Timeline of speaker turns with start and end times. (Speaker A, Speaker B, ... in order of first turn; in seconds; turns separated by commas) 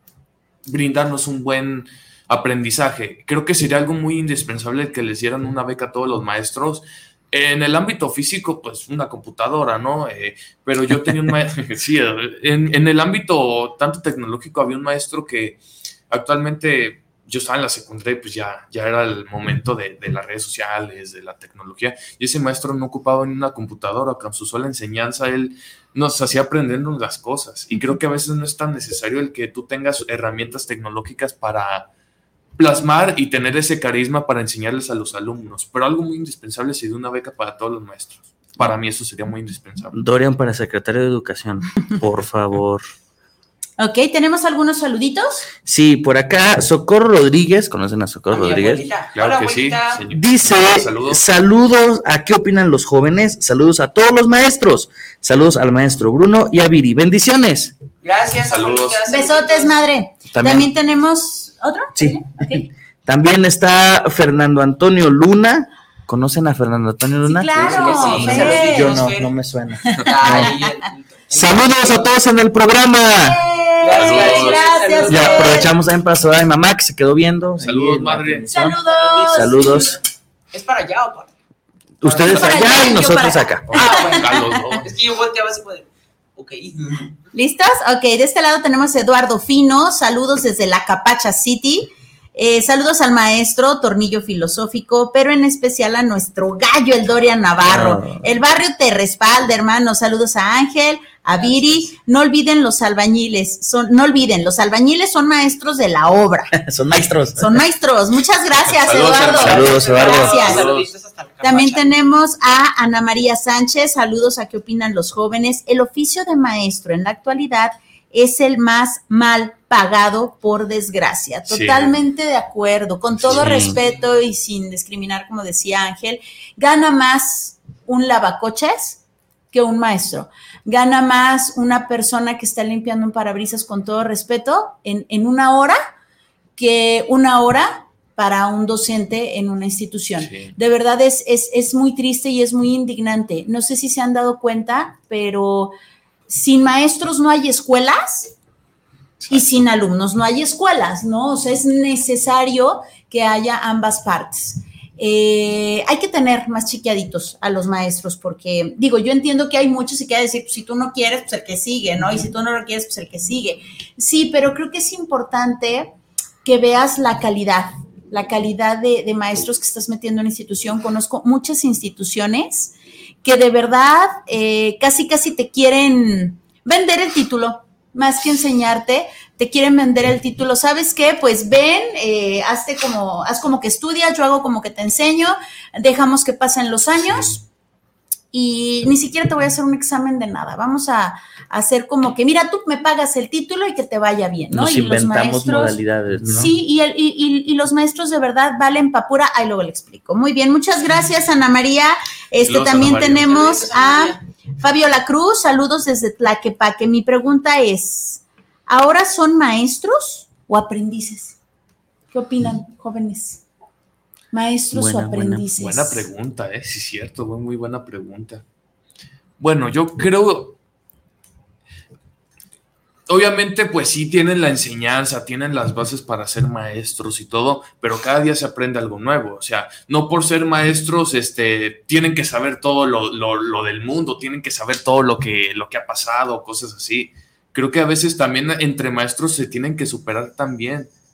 Speaker A: 0.7-31.9, Speaker A: 32.6-40.0, Speaker B: 39.9-42.9, Speaker C: 43.8-45.5, Speaker B: 45.6-48.9, Speaker D: 48.3-50.1, Speaker A: 49.1-51.2, Speaker B: 50.1-57.8, Speaker D: 58.0-59.8, Speaker A: 58.5-59.0, Speaker C: 59.1-62.7, Speaker B: 60.3-60.7, Speaker B: 61.9-70.6, Speaker C: 67.2-68.9, Speaker D: 67.6-69.3, Speaker A: 67.7-68.7, Speaker D: 69.9-72.1, Speaker B: 71.3-73.4, Speaker C: 73.3-75.7, Speaker D: 73.8-75.7, Speaker A: 73.9-74.7, Speaker B: 75.0-78.8, Speaker A: 77.6-78.5, Speaker C: 78.5-80.0, Speaker D: 78.9-79.9, Speaker B: 79.3-80.0, Speaker D: 80.5-81.3, Speaker B: 82.0-83.7, Speaker D: 82.0-83.1, Speaker C: 82.3-84.6, Speaker A: 83.7-84.9, Speaker D: 83.7-87.2, Speaker C: 87.3-106.5, Speaker B: 97.7-98.2, Speaker D: 101.3-101.9, Speaker B: 106.5-107.6, Speaker C: 107.4-110.7, Speaker A: 108.7-110.9, Speaker B: 109.4-110.3, Speaker D: 109.4-111.9, Speaker C: 111.4-129.0, Speaker A: 121.5-122.0, Speaker A: 123.2-123.7, Speaker B: 123.3-123.8, Speaker D: 123.6-124.0, Speaker C: 129.5-135.8, Speaker C: 136.6-145.7, Speaker A: 140.2-140.5, Speaker C: 146.3-148.3, Speaker A: 149.2-149.6, Speaker C: 149.3-165.9, Speaker C: 166.4-172.7, Speaker C: 173.2-187.4, Speaker A: 187.1-187.4, Speaker C: 188.3-211.4, Speaker B: 194.5-196.6, Speaker A: 202.4-203.3, Speaker D: 202.9-204.2, Speaker C: 212.1-213.4, Speaker C: 214.3-216.1, Speaker B: 214.7-215.5, Speaker A: 215.6-218.4, Speaker A: 219.4-220.6, Speaker A: 223.1-240.9